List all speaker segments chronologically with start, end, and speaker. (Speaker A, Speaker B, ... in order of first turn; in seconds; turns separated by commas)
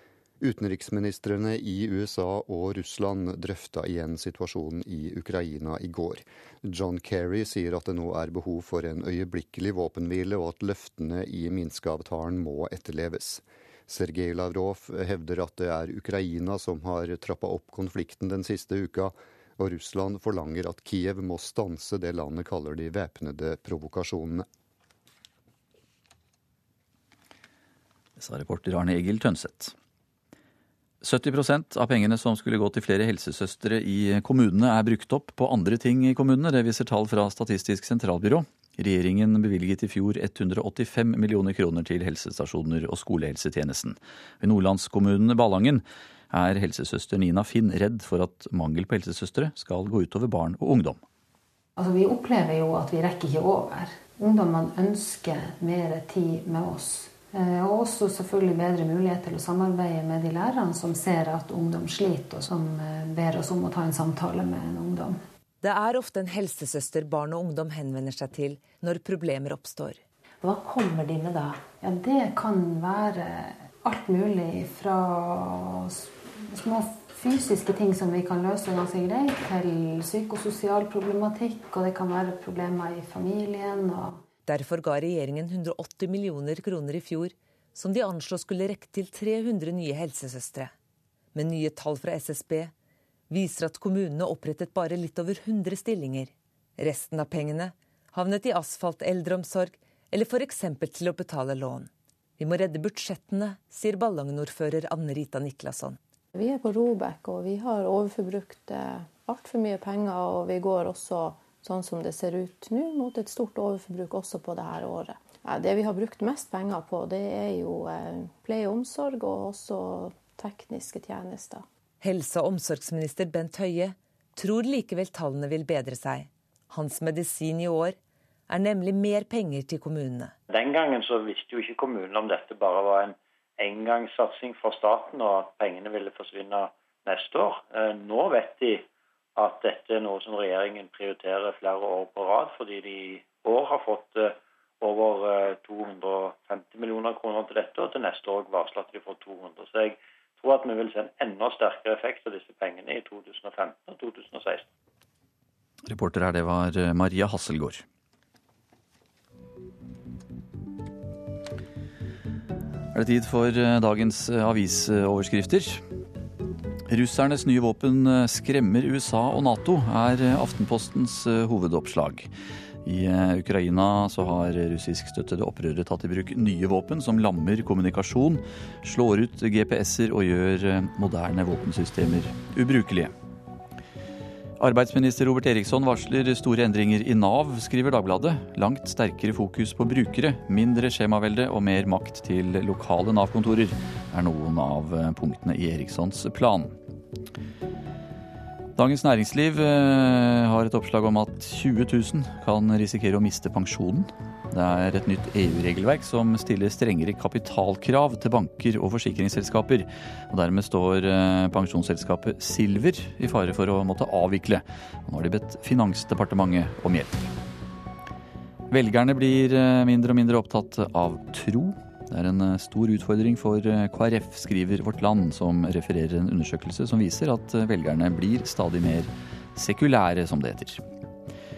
Speaker A: 0.4-24.4, Speaker B: 28.2-29.7, Speaker B: 31.0-51.0, Speaker C: 51.8-65.2, Speaker D: 65.6-70.0, Speaker C: 70.4-84.2, Speaker D: 84.5-90.7, Speaker D: 91.3-92.7, Speaker D: 93.3-106.0, Speaker E: 106.3-121.7, Speaker D: 122.0-128.0, Speaker D: 128.5-130.3, Speaker F: 130.5-138.8, Speaker F: 139.4-154.7, Speaker B: 155.9-157.8, Speaker B: 162.9-165.8, Speaker B: 166.9-172.3, Speaker B: 172.8-183.1, Speaker B: 184.6-196.8, Speaker B: 198.8-217.3, Speaker B: 218.7-230.8